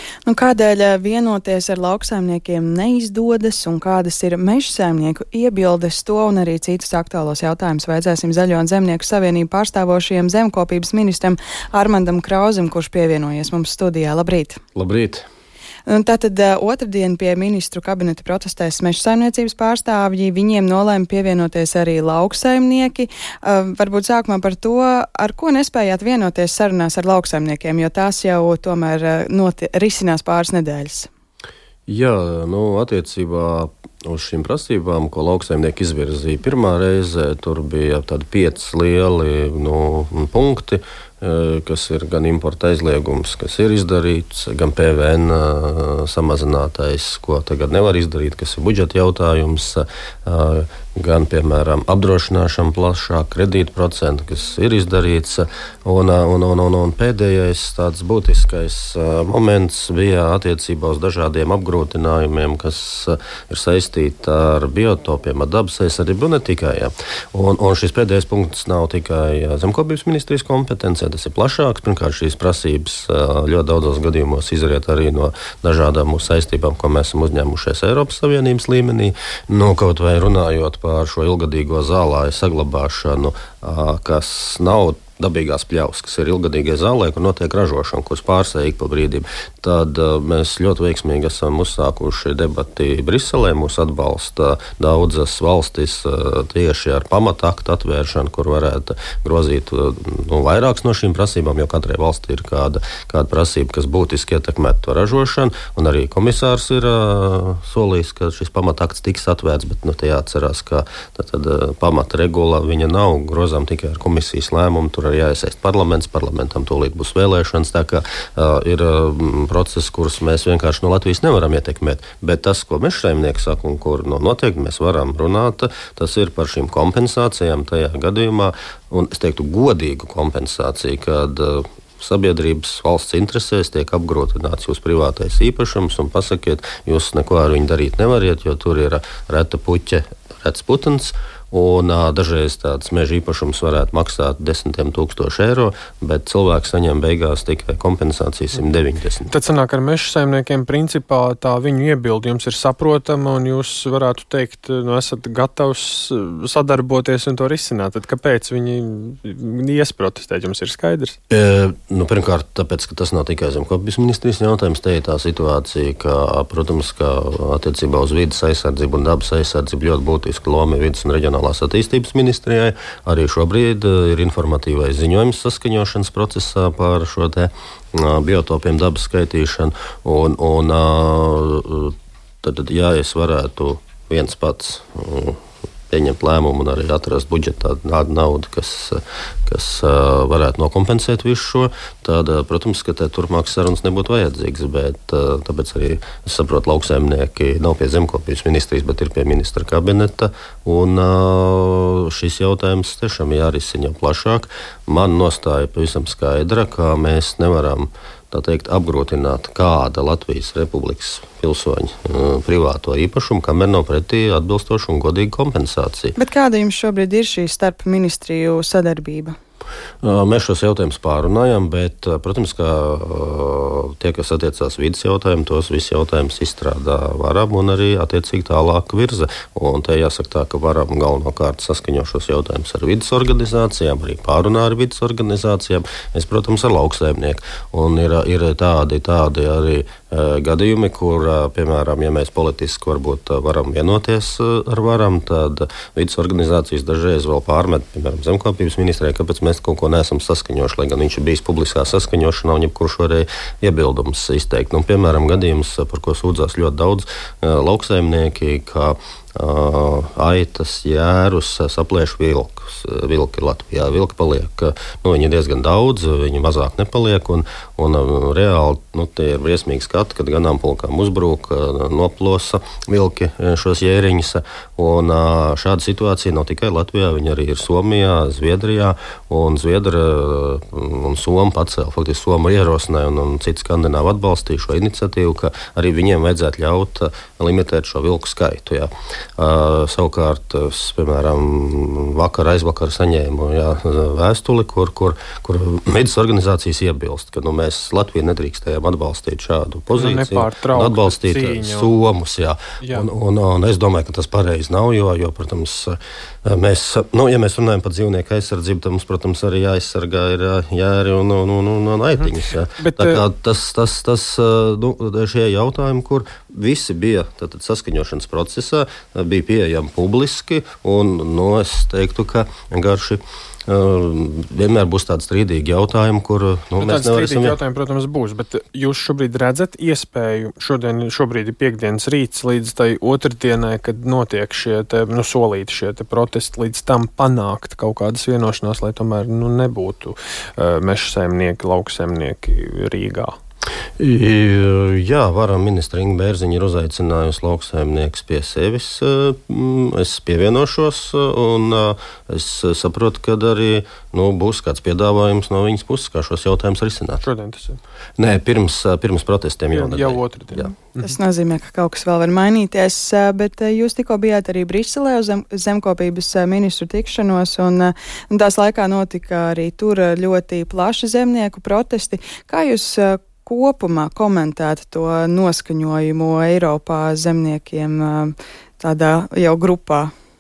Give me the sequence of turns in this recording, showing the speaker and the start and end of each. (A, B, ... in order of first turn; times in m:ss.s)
0:00.2-0:14.6 A
0:14.8-0:15.2 B
0:15.9-0:31.1 A
0:31.9-2:29.3 B
2:29.3-2:41.2 C
2:41.3-3:36.2 B
3:36.2-3:39.4 A
3:40.0-5:27.6 B
4:59.9-5:01.9 C
5:02.8-5:03.1 C
5:12.8-5:13.2 C
5:26.8-5:43.3 C
5:44.0-5:57.2 B
5:57.2-5:57.8 C
5:58.2-6:00.7 B
5:59.7-6:01.1 C
6:01.0-6:20.1 A